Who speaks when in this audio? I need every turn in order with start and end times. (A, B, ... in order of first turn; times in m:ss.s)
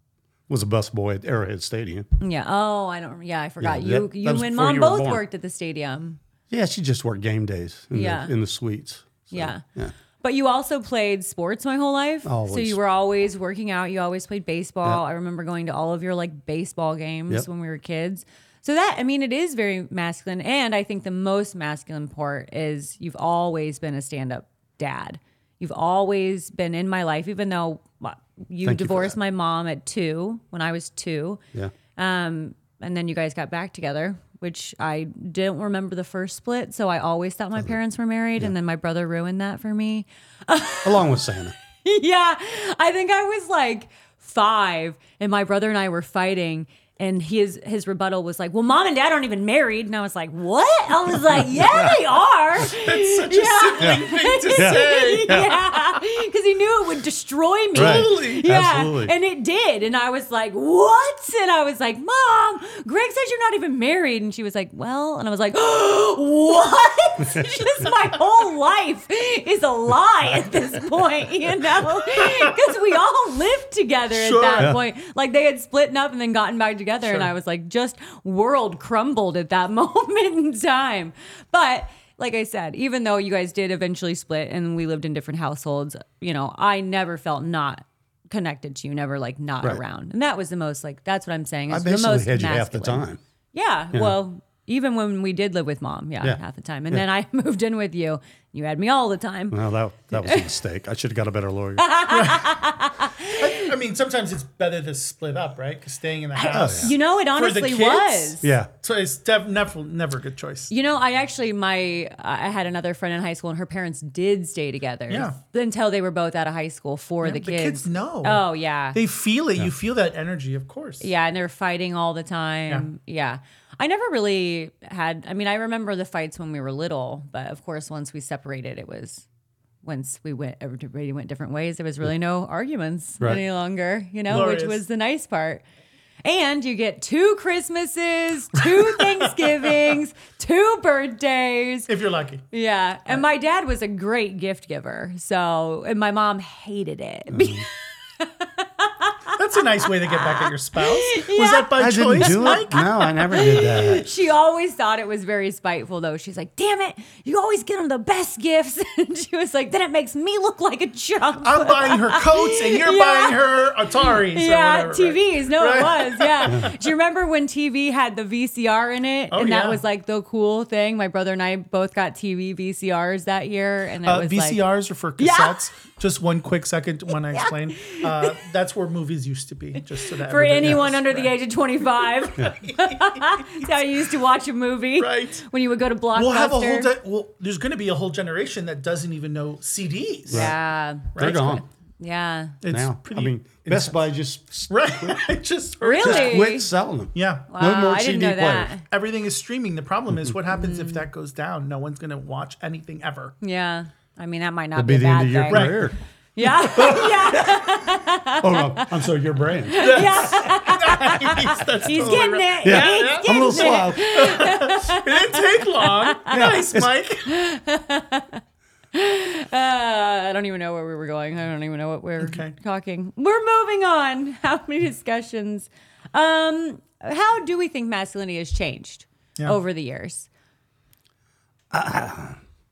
0:00.5-0:02.1 A
0:02.2-0:06.2 B
0:03.6-0:05.2 A
0:06.5-0:09.9 A
0:07.9-0:08.3 B
0:09.3-0:09.6 B
0:10.2-0:31.4 B
0:12.2-0:12.8 A
0:28.6-0:29.2 A
0:32.0-0:41.2 B
0:40.8-0:41.5 A
0:41.8-1:39.6 B
0:51.4-0:51.9 A
0:52.7-0:55.5 C
0:54.5-0:55.5 A
0:57.7-0:58.4 C
0:57.8-0:59.1 A
1:12.2-1:12.6 C
1:14.1-1:14.7 C
1:31.7-1:33.2 A
1:36.2-1:37.0 A
1:39.5-1:41.8 A
1:40.1-1:40.4 B
1:41.8-1:43.7 B
1:42.1-1:42.5 C
1:43.2-1:50.7 C
1:46.4-1:48.5 B
1:46.5-1:46.9 A
1:48.4-1:48.7 A
1:50.7-1:59.0 B
1:55.1-1:55.4 C
1:57.2-2:01.1 C
2:01.0-2:09.2 B
2:09.8-2:15.6 B
2:14.3-2:14.8 C
2:16.2-2:21.9 B
2:18.6-2:20.0 C
2:21.9-2:22.5 C
2:22.5-2:54.6 B
2:27.3-2:27.6 A
2:29.3-2:32.9 C
2:31.8-2:34.1 A
2:41.4-2:46.8 C
2:49.3-2:49.8 C
2:54.0-3:01.3 C
2:55.2-2:55.6 B
2:57.3-2:58.4 B
3:00.0-3:06.9 B
3:02.7-3:03.7 C
3:05.0-3:05.4 C
3:06.2-3:10.5 C
3:10.3-3:10.6 A
3:10.3-3:12.6 B
3:11.1-3:11.6 A
3:11.2-3:11.5 C
3:12.6-3:14.0 C
3:12.7-3:15.2 A
3:14.7-3:16.5 C
3:15.8-3:16.7 B
3:16.0-3:18.7 A
3:17.2-3:17.5 C
3:17.5-3:18.8 B
3:18.8-3:23.4 C
3:20.5-3:21.0 B
3:23.4-3:25.8 B
3:24.8-3:26.0 A
3:25.5-3:25.9 C
3:26.4-3:29.0 B
3:26.4-3:27.2 C
3:26.7-3:30.3 A
3:29.7-3:36.4 B
3:29.8-3:37.3 C
3:32.6-3:34.3 A
3:36.3-3:36.9 A
3:37.2-3:38.4 B
3:38.9-3:50.3 B
3:42.2-3:42.5 C
3:51.7-3:52.4 A